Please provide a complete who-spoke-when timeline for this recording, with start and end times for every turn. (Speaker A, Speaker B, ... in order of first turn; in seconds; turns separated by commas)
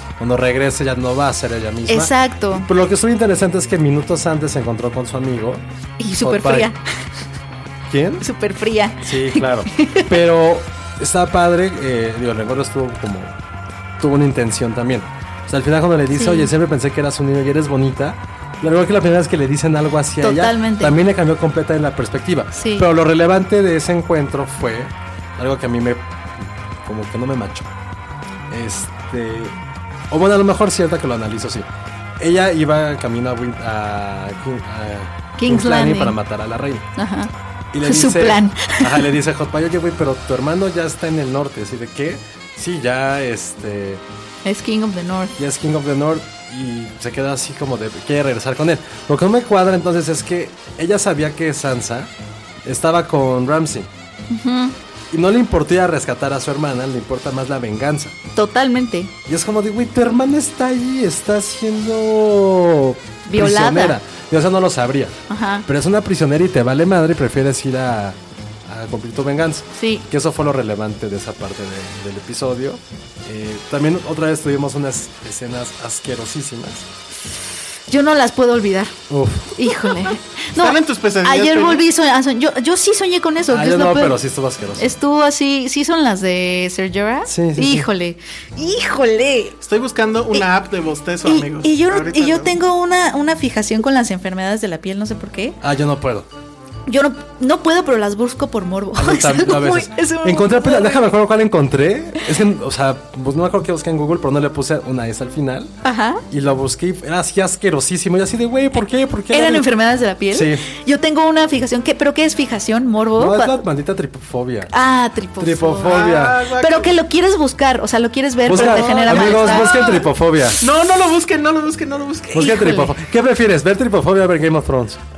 Speaker A: 0.2-5.6, Speaker B: 1.9-2.7, Speaker B: 6.0-6.8, Speaker A: 6.2-6.7, Speaker A: 7.9-8.3, Speaker B: 8.2-10.1, Speaker A: 9.0-13.4, Speaker A: 14.0-26.1, Speaker B: 16.1-16.5, Speaker B: 20.2-20.9, Speaker B: 22.6-22.9, Speaker A: 26.8-27.7, Speaker A: 28.5-29.6, Speaker A: 30.1-31.7, Speaker A: 32.2-36.9, Speaker B: 35.4-36.1, Speaker B: 37.0-37.3, Speaker A: 37.7-44.0, Speaker B: 37.8-39.1, Speaker B: 44.5-45.3, Speaker A: 45.4-52.1, Speaker A: 52.6-53.9, Speaker B: 54.3-54.7, Speaker A: 55.1-58.2, Speaker B: 58.3-59.1, Speaker A: 59.2-76.9, Speaker B: 63.3-64.0, Speaker B: 65.3-65.7, Speaker B: 69.8-70.0, Speaker B: 77.9-78.9, Speaker A: 79.1-79.6, Speaker B: 79.5-84.2, Speaker C: 80.5-81.8, Speaker A: 83.5-84.9, Speaker B: 84.8-89.5, Speaker A: 87.3-87.9, Speaker C: 89.6-92.5, Speaker B: 91.2-95.6, Speaker A: 95.6-96.3, Speaker B: 96.9-101.1, Speaker A: 99.0-105.7, Speaker B: 105.8-106.2, Speaker A: 106.3-109.7, Speaker B: 109.3-113.6, Speaker A: 110.3-110.6, Speaker A: 113.2-114.7, Speaker B: 114.7-120.0, Speaker A: 115.4-116.5, Speaker C: 115.9-117.0, Speaker A: 118.5-120.6, Speaker C: 118.5-122.4, Speaker B: 122.3-122.9, Speaker A: 122.3-125.0